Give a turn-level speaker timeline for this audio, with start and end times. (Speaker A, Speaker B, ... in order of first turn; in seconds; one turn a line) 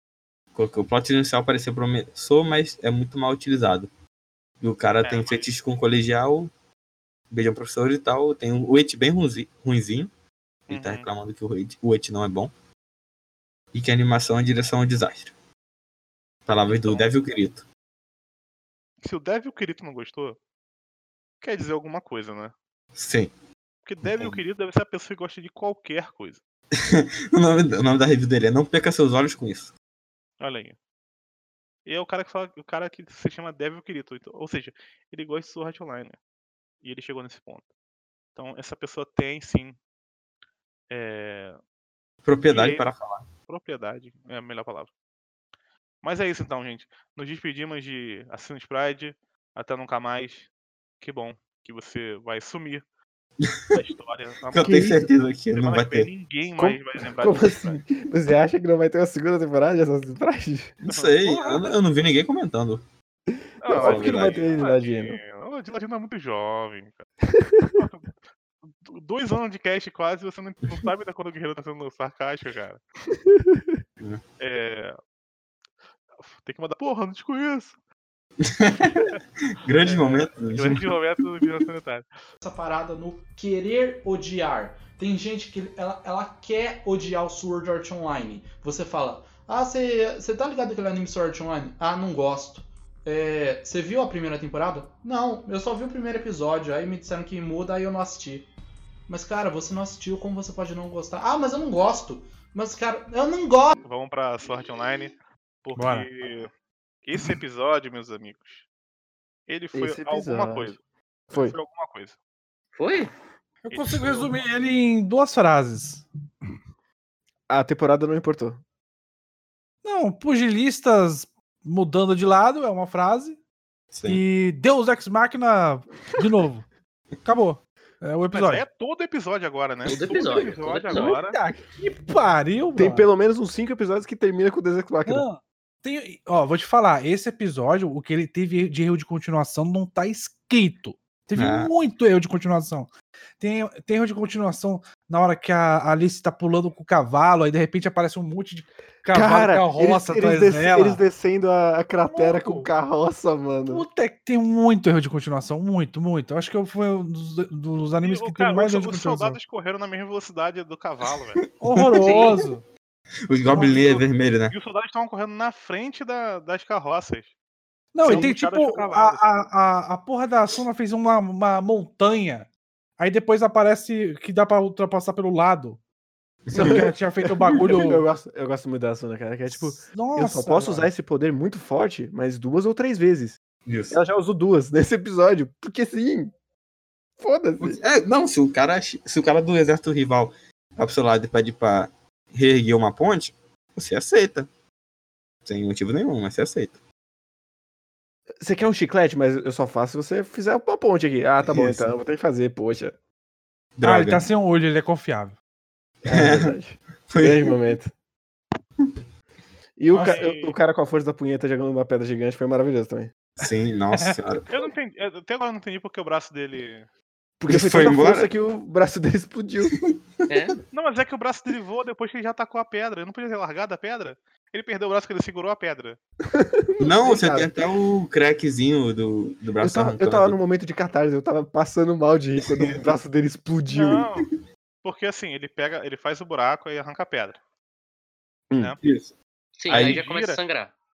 Speaker A: 0.5-3.9
Speaker A: 4.6-6.5
Speaker B: 5.0-5.5
Speaker A: 7.3-10.1
Speaker B: 10.7-11.1
Speaker A: 10.7-12.5
Speaker A: 13.7-15.3
Speaker A: 16.5-17.7
Speaker B: 16.8-17.1
Speaker B: 19.0-20.4
Speaker B: 21.4-22.5
Speaker A: 23.0-23.3
Speaker B: 23.9-26.4
Speaker A: 24.0-24.4
Speaker A: 26.8-29.7
Speaker B: 30.4-30.8
Speaker B: 31.9-36.2
Speaker B: 36.8-37.6
Speaker B: 38.4-39.8
Speaker B: 40.9-41.6
Speaker A: 42.2-43.3
Speaker B: 42.5-42.9
Speaker B: 43.5-44.9
Speaker B: 46.0-50.5
Speaker B: 51.0-52.8
Speaker B: 53.7-55.0
Speaker A: 54.5-56.1
Speaker C: 54.6-55.0
Speaker B: 55.5-57.8
Speaker C: 56.6-60.8
Speaker B: 60.9-61.8
Speaker A: 60.9-62.8
Speaker B: 63.6-67.1
Speaker C: 63.7-65.2
Speaker A: 63.7-64.5
Speaker C: 67.4-67.8
Speaker B: 67.8-68.1
Speaker B: 68.7-72.8
Speaker C: 73.1-73.8
Speaker B: 74.4-75.0
Speaker B: 76.2-77.7
Speaker A: 78.4-80.9
Speaker B: 79.8-82.1
Speaker D: 82.4-98.5
Speaker D: 99.1-103.8
Speaker B: 103.8-106.5
Speaker E: 105.8-106.1
Speaker B: 107.0-108.7
Speaker B: 109.5-110.8
Speaker C: 109.7-110.8
Speaker C: 111.3-111.6
Speaker B: 111.3-112.2
Speaker F: 112.8-113.1
Speaker E: 113.7-116.1
Speaker B: 113.7-114.3
Speaker C: 117.5-118.6
Speaker E: 119.8-123.4
Speaker A: 123.9-124.2
Speaker E: 124.1-126.7
Speaker E: 127.2-128.7
Speaker B: 128.3-131.4
Speaker F: 129.9-131.2
Speaker C: 131.0-131.6
Speaker E: 131.8-133.1
Speaker C: 132.8-135.3
Speaker E: 135.1-151.0
Speaker A: 141.3-141.7
Speaker C: 149.1-153.9
Speaker E: 152.1-152.7
Speaker E: 153.7-159.4
Speaker B: 158.0-161.4
Speaker E: 161.6-162.6
Speaker A: 161.6-162.4
Speaker F: 162.0-162.4
Speaker A: 163.3-164.6
Speaker B: 163.5-167.3
Speaker E: 167.9-175.8
Speaker B: 168.0-169.5
Speaker A: 176.5-176.9
Speaker C: 176.5-183.4
Speaker E: 176.6-178.0
Speaker E: 179.5-180.9
Speaker A: 183.7-184.0
Speaker C: 183.9-186.3
Speaker C: 187.2-187.8
Speaker A: 187.6-194.5
Speaker A: 195.4-196.8
Speaker C: 198.4-202.9
Speaker A: 201.4-201.9
Speaker A: 203.8-204.3
Speaker E: 203.8-205.4
Speaker A: 206.0-206.5
Speaker C: 206.1-207.9
Speaker A: 207.1-207.6
Speaker C: 209.8-213.1
Speaker B: 209.9-210.6
Speaker A: 213.4-214.5
Speaker B: 214.5-216.9
Speaker C: 217.4-219.8
Speaker A: 217.5-218.3
Speaker F: 220.3-220.6
Speaker B: 220.7-226.0
Speaker C: 226.3-227.5
Speaker A: 226.8-230.4
Speaker C: 229.6-234.1
Speaker B: 233.7-234.3
Speaker B: 234.8-237.4
Speaker C: 238.5-238.8
Speaker A: 238.8-239.1
Speaker F: 239.6-240.7
Speaker B: 239.7-240.4
Speaker A: 239.7-240.0